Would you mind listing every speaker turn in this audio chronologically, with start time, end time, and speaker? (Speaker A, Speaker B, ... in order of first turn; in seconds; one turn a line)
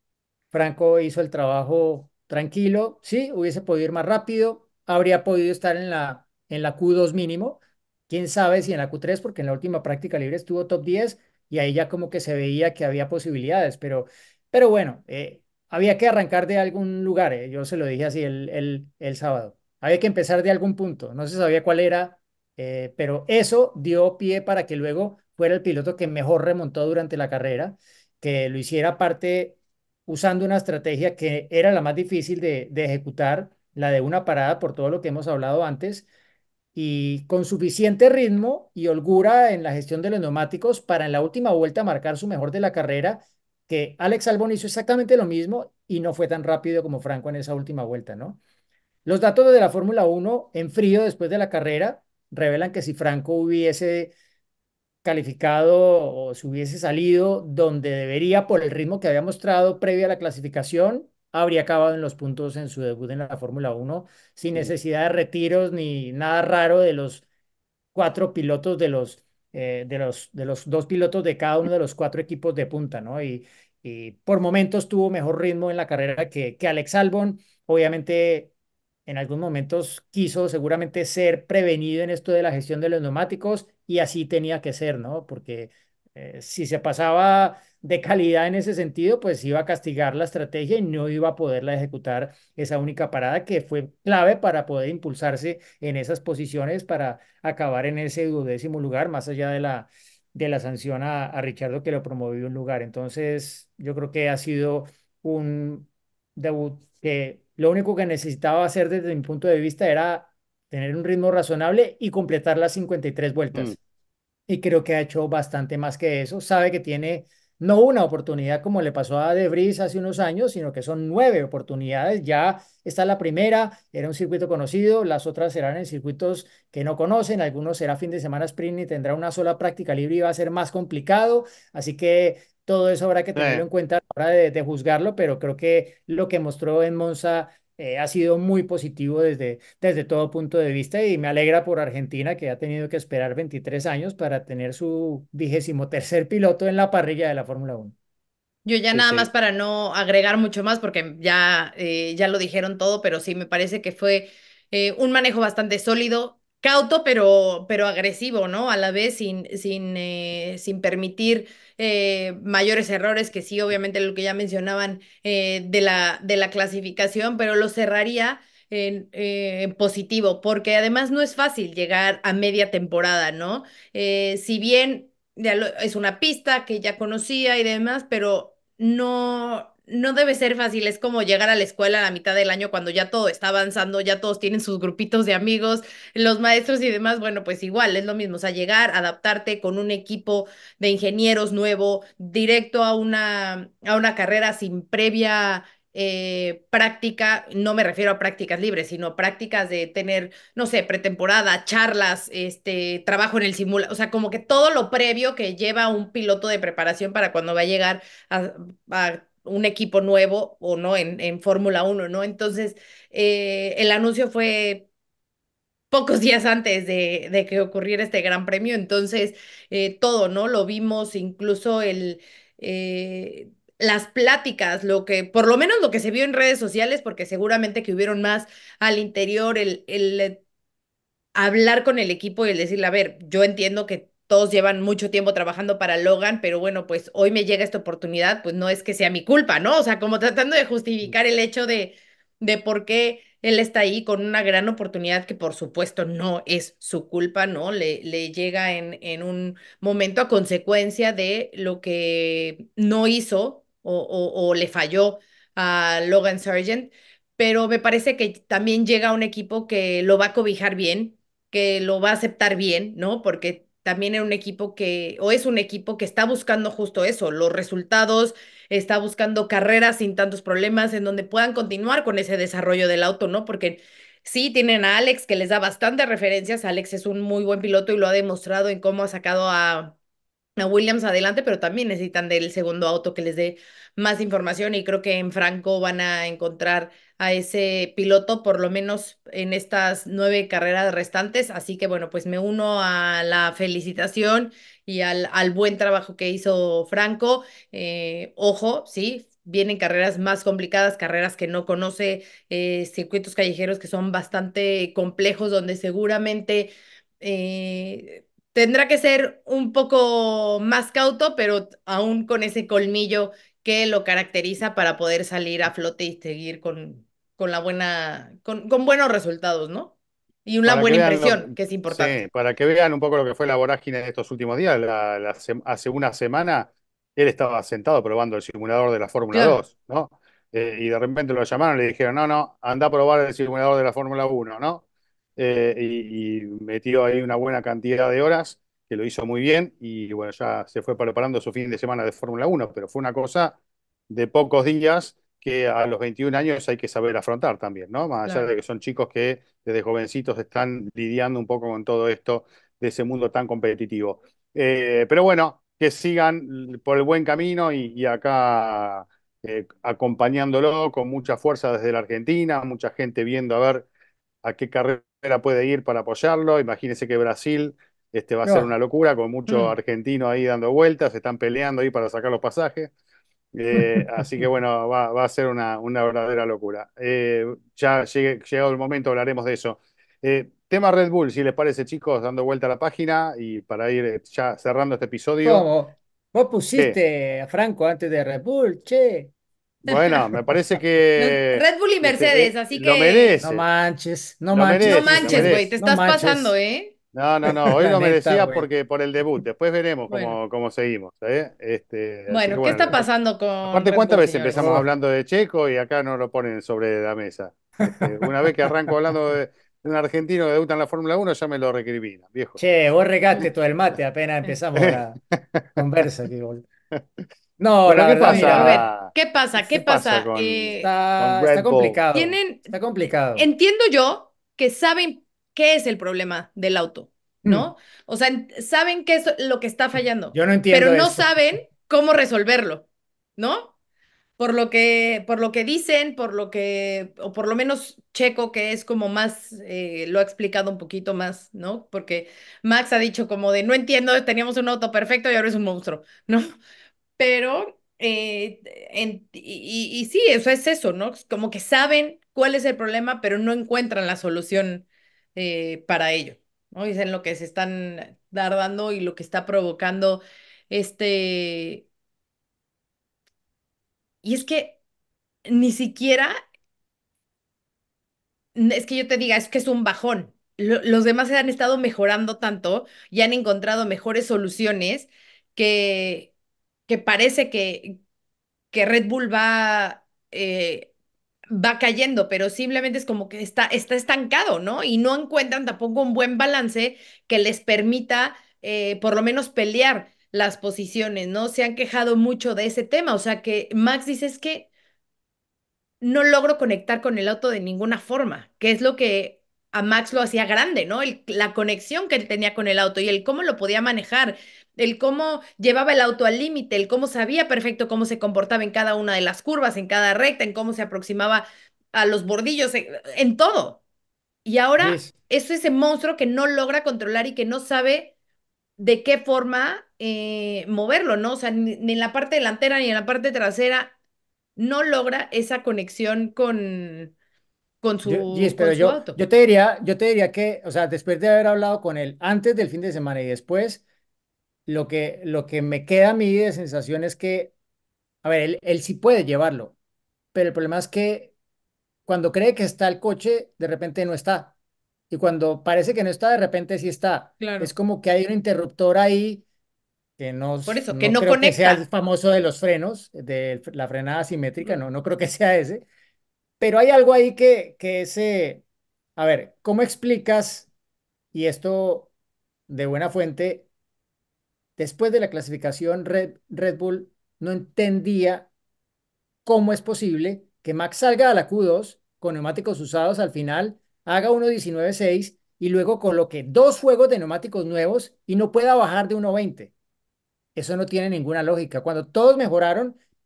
Speaker A: 0.5-29.6
Speaker A: 30.1-36.1
Speaker A: 36.8-48.4
Speaker A: 49.0-54.1
Speaker A: 55.0-67.2
Speaker A: 68.0-78.5
Speaker A: 79.1-113.8
Speaker A: 114.5-147.9
Speaker B: 133.3-133.6
Speaker C: 148.7-214.9
Speaker B: 148.9-149.3
Speaker C: 215.9-230.4
Speaker C: 231.3-280.0
Speaker C: 280.6-319.9
Speaker C: 320.5-322.2
Speaker B: 320.6-334.8
Speaker C: 329.3-329.6
Speaker B: 335.4-343.6
Speaker B: 344.1-363.9
Speaker B: 364.4-372.9
Speaker A: 368.4-368.7
Speaker B: 373.5-385.7
Speaker A: 385.4-389.3
Speaker B: 389.9-393.6
Speaker C: 389.9-390.2
Speaker C: 391.2-393.4
Speaker A: 393.4-396.6
Speaker B: 394.5-395.6
Speaker C: 394.8-396.9
Speaker B: 397.1-403.1
Speaker A: 397.7-398.7
Speaker C: 400.1-400.4
Speaker C: 402.3-404.7
Speaker B: 403.6-412.6
Speaker A: 404.6-404.9
Speaker A: 407.8-408.5
Speaker A: 412.6-415.2
Speaker B: 414.8-415.7
Speaker A: 415.8-416.7
Speaker A: 417.6-418.9
Speaker B: 417.9-422.0
Speaker C: 418.3-420.9
Speaker A: 420.8-423.5
Speaker C: 422.1-422.7
Speaker C: 423.4-432.9
Speaker A: 427.4-427.7
Speaker A: 430.3-431.3
Speaker C: 433.4-433.7
Speaker C: 434.4-446.5
Speaker C: 447.2-461.9
Speaker C: 464.2-464.8
Speaker C: 465.5-466.4
Speaker C: 468.6-476.3
Speaker C: 476.9-478.0
Speaker C: 478.7-480.9
Speaker C: 481.5-494.7
Speaker C: 496.0-513.8
Speaker C: 514.5-518.1
Speaker A: 514.8-515.1
Speaker C: 518.8-523.9
Speaker C: 524.6-527.1
Speaker C: 527.8-529.2
Speaker A: 528.0-533.8
Speaker A: 534.7-537.5
Speaker A: 538.2-539.8
Speaker A: 540.3-541.3
Speaker A: 542.1-544.5
Speaker A: 545.1-549.4
Speaker C: 547.4-547.7
Speaker A: 550.2-555.9
Speaker C: 550.7-551.8
Speaker A: 556.6-558.6
Speaker A: 559.2-560.7
Speaker A: 561.3-562.1
Speaker A: 562.7-563.7
Speaker A: 564.8-568.5
Speaker A: 569.5-579.7
Speaker A: 580.5-583.0